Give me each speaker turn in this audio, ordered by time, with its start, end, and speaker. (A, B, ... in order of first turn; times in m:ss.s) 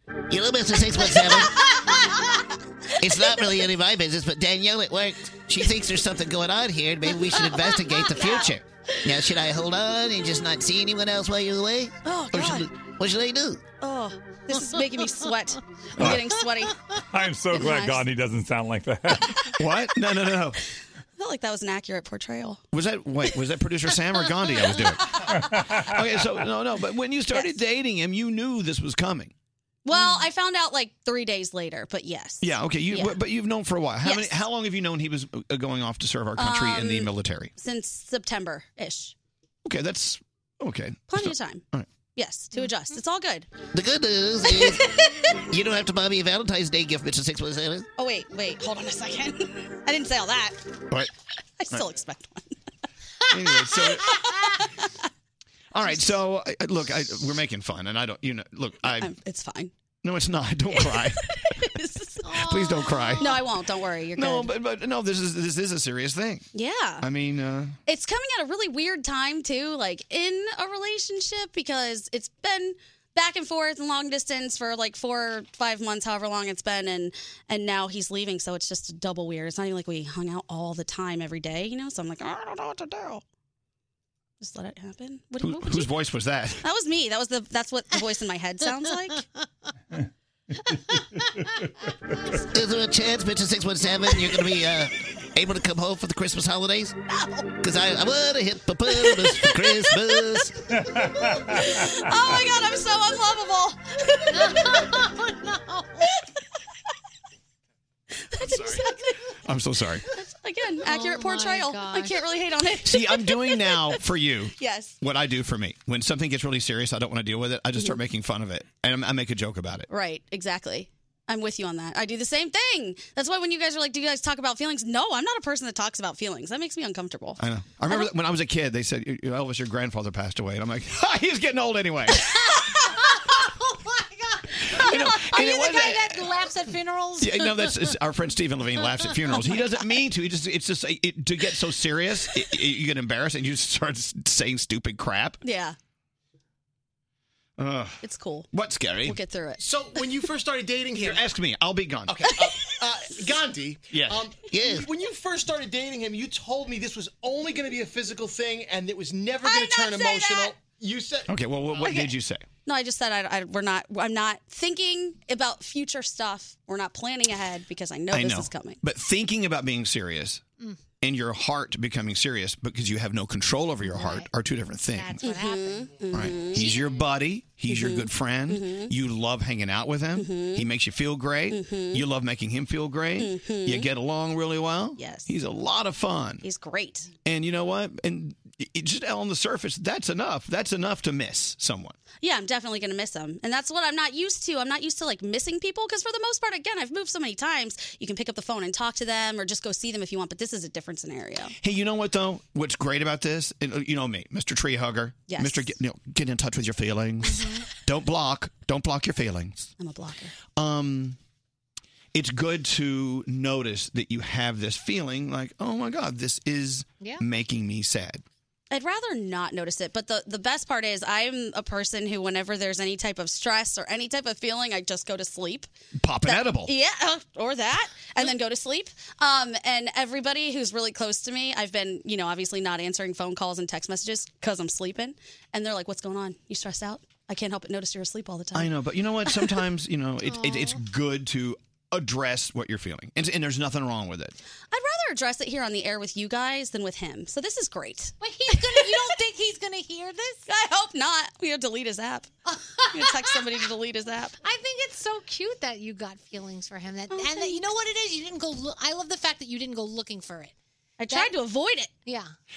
0:00.3-0:01.5 A
0:01.0-0:01.7 B
0:03.0-0:13.7 A
0:03.1-0:03.6 B
0:07.1-0:08.5 B
0:12.0-0:12.7 B
0:12.4-0:12.6 C
0:13.8-0:16.8 B
0:14.5-0:15.1 D
0:16.0-0:16.2 C
0:16.1-0:16.7 D
0:17.1-0:19.4 E
0:17.5-0:18.0 B
0:19.6-0:20.6 C
0:21.2-0:22.6 B
0:22.7-0:29.3 C
0:25.4-0:25.8 E
0:29.8-0:33.2 B
0:32.4-0:37.5 C
0:34.0-0:34.4 B
0:36.4-0:39.1 B
0:39.6-0:41.9 C
0:41.1-0:41.6 B
0:42.2-0:43.5 B
0:43.7-0:44.8 A
0:44.5-0:45.0 B
0:45.5-0:47.9 A
0:48.0-0:50.6 B
0:51.6-0:52.5 B
0:53.3-0:54.2 C
0:55.7-0:59.1 C
0:59.0-0:59.7 B
1:00.0-1:01.3 C
1:01.0-1:02.3 B
1:02.2-1:03.5 D
1:02.3-1:03.4 C
1:03.2-1:04.5 B
1:04.1-1:06.5 C
1:06.5-1:07.0 B
1:07.0-1:07.8 C
1:07.8-1:23.2 B
1:24.4-1:25.9 B
1:25.4-1:26.6 C
1:26.6-1:29.2 B
1:32.5-1:37.0 A
1:37.1-1:37.4 B
1:37.6-1:40.6 A
1:38.9-1:40.4 B
1:40.9-1:41.6 E
1:41.0-1:44.9 B
1:44.3-1:46.1 D
1:48.2-1:49.1 B
1:49.4-1:50.0 C
1:50.1-1:54.0 B
1:50.8-1:52.2 D
1:52.8-1:59.9 C
1:54.6-1:54.9 B
1:59.9-2:08.1 B
2:07.4-2:12.5 C
2:12.5-2:17.9 D
2:14.7-2:16.3 C
2:17.2-2:25.4 C
2:25.4-2:25.8 B
2:27.6-2:29.2 C
2:28.0-2:28.5 B
2:29.0-2:29.6 B
2:29.6-2:31.2 F
2:31.0-2:32.4 C
2:32.1-2:42.0 F
2:33.9-2:34.2 C
2:34.5-2:34.8 A
2:39.4-2:40.5 B
2:41.3-2:42.4 C
2:42.6-2:48.8 B
2:48.1-2:50.4 C
2:51.0-2:55.2 C
2:53.8-2:54.3 D
2:54.9-2:56.9 D
2:55.2-2:56.7 B
2:56.1-3:06.4 C
2:57.7-2:58.9 B
3:00.2-3:00.7 B
3:01.5-3:02.0 B
3:03.2-3:03.9 B
3:05.0-3:05.3 B
3:06.4-3:07.1 B
3:07.2-3:12.0 C
3:12.2-3:21.5 B
3:21.6-3:29.7 C
3:25.3-3:25.7 B
3:29.8-3:30.3 B
3:30.6-3:31.2 C
3:32.1-3:38.2 C
3:38.7-3:45.7 B
3:46.0-3:46.7 C
3:46.2-3:58.7 B
3:58.5-4:04.4 C
4:00.2-4:00.8 D
4:04.7-4:09.1 B
4:08.2-4:10.5 D
4:10.5-4:12.3 B
4:12.5-4:13.5 D
4:12.9-4:14.4 B
4:14.4-4:20.5 D
4:17.1-4:17.7 B
4:21.0-4:21.9 B
4:21.1-4:21.4 D
4:22.0-4:22.3 D